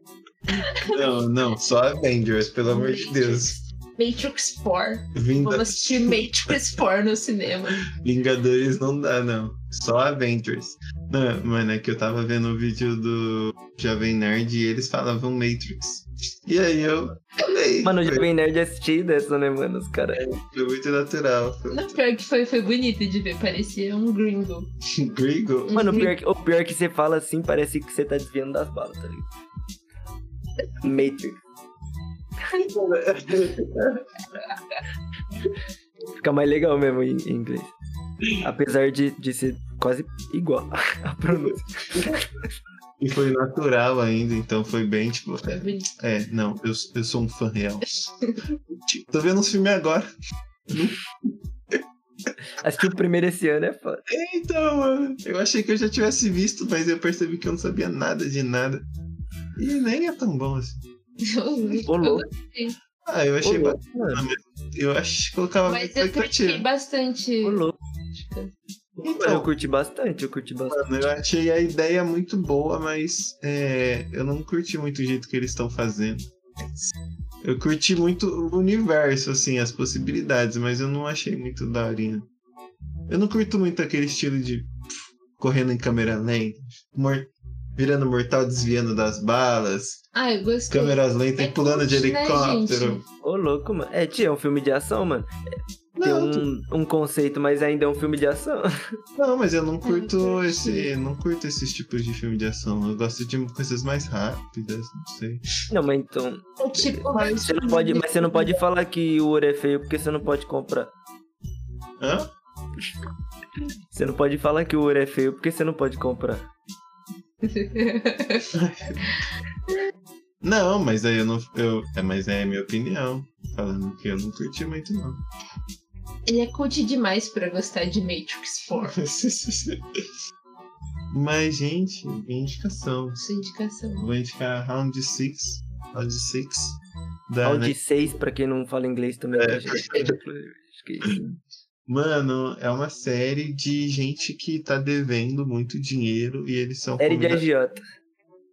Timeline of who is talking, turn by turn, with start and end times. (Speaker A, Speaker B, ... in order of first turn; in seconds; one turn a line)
Speaker A: 0.5-1.0
Speaker B: 0.8-3.5
Speaker A: 2.7-7.8
Speaker B: 5.1-6.6
Speaker B: 7.9-18.2
Speaker C: 17.8-20.2
Speaker B: 20.1-22.0
Speaker A: 21.7-24.7
Speaker B: 24.9-25.9
Speaker A: 25.7-26.1
Speaker C: 25.7-29.3
Speaker C: 30.8-31.4
Speaker B: 32.5-34.0
Speaker C: 36.2-37.7
Speaker C: 38.4-42.5
Speaker B: 41.3-42.1
Speaker B: 43.0-47.8
Speaker A: 45.5-45.9
Speaker B: 48.7-50.1
Speaker B: 50.7-51.0
Speaker C: 52.6-54.0
Speaker B: 54.1-58.8
Speaker B: 59.5-60.8
Speaker A: 61.2-62.8
Speaker C: 61.8-62.2
Speaker B: 63.0-66.6
Speaker C: 63.4-64.3
Speaker A: 65.7-68.5
Speaker C: 67.4-67.7
Speaker C: 69.0-71.0
Speaker B: 69.0-69.5
Speaker B: 70.7-76.8
Speaker B: 77.4-82.3
Speaker B: 83.1-84.7
Speaker B: 85.4-90.0
Speaker A: 90.1-93.0
Speaker B: 90.7-93.0
Speaker C: 93.2-95.3
Speaker B: 96.0-96.5
Speaker C: 96.0-98.7
Speaker B: 99.2-105.4
Speaker A: 99.8-100.9
Speaker C: 105.7-106.9
Speaker B: 106.6-107.6
Speaker A: 106.8-108.6
Speaker C: 107.4-110.9
Speaker B: 112.0-112.3
Speaker C: 113.9-116.5
Speaker A: 117.4-118.5
Speaker B: 118.5-119.0
Speaker B: 120.4-125.2
Speaker A: 126.3-129.0
Speaker B: 128.7-130.1
Speaker B: 131.1-133.2
Speaker A: 133.2-134.1
Speaker B: 134.0-136.8
Speaker B: 137.3-137.7
Speaker C: 137.4-141.4
Speaker B: 139.3-140.1
Speaker B: 141.9-147.4
Speaker C: 147.0-147.8